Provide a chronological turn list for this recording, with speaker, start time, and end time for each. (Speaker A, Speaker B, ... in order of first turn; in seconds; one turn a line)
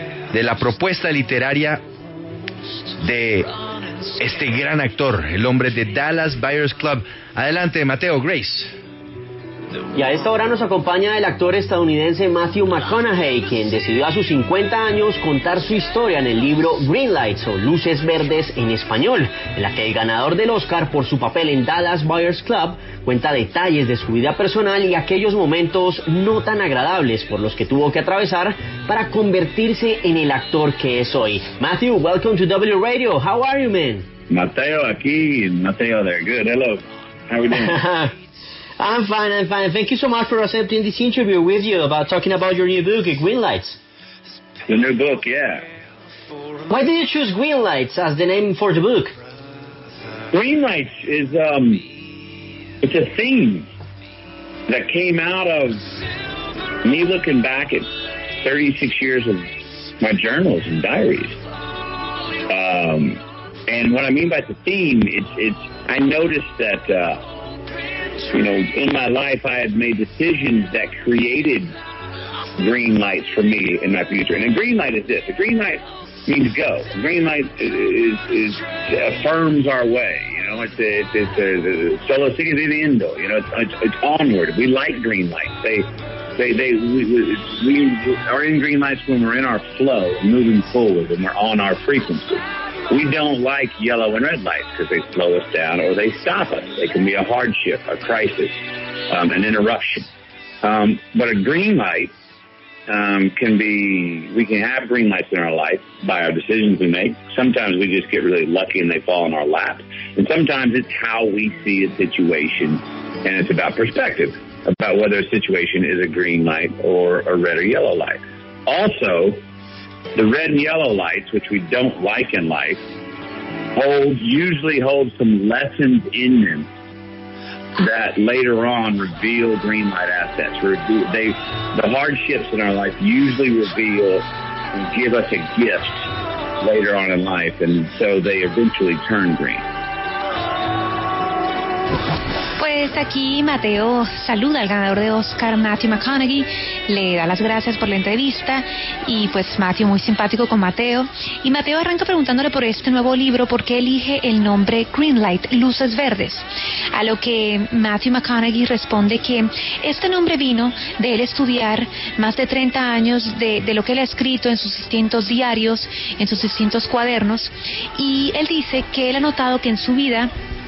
Speaker A: 0.3-1.8
Speaker A: 3.0-3.5
Speaker A: 4.2-8.7
Speaker B: 9.9-34.1
Speaker C: 34.3-37.7
Speaker B: 37.5-38.1
Speaker B: 38.8-43.8
Speaker C: 44.7-45.6
Speaker B: 46.7-49.1
Speaker C: 50.3-51.8
Speaker C: 52.8-53.7
Speaker C: 54.7-55.8
Speaker C: 56.8-57.9
Speaker C: 58.4-59.5
Speaker C: 60.0-61.4
Speaker C: 62.5-67.2
Speaker C: 68.3-71.7
Speaker C: 72.6-85.9
Speaker C: 86.4-98.6
Speaker C: 99.1-100.0
Speaker C: 100.6-102.1
Speaker C: 102.9-119.4
Speaker C: 120.1-122.8
Speaker C: 123.7-126.7
Speaker C: 127.8-136.1
Speaker C: 136.6-139.6
Speaker D: 142.6-170.3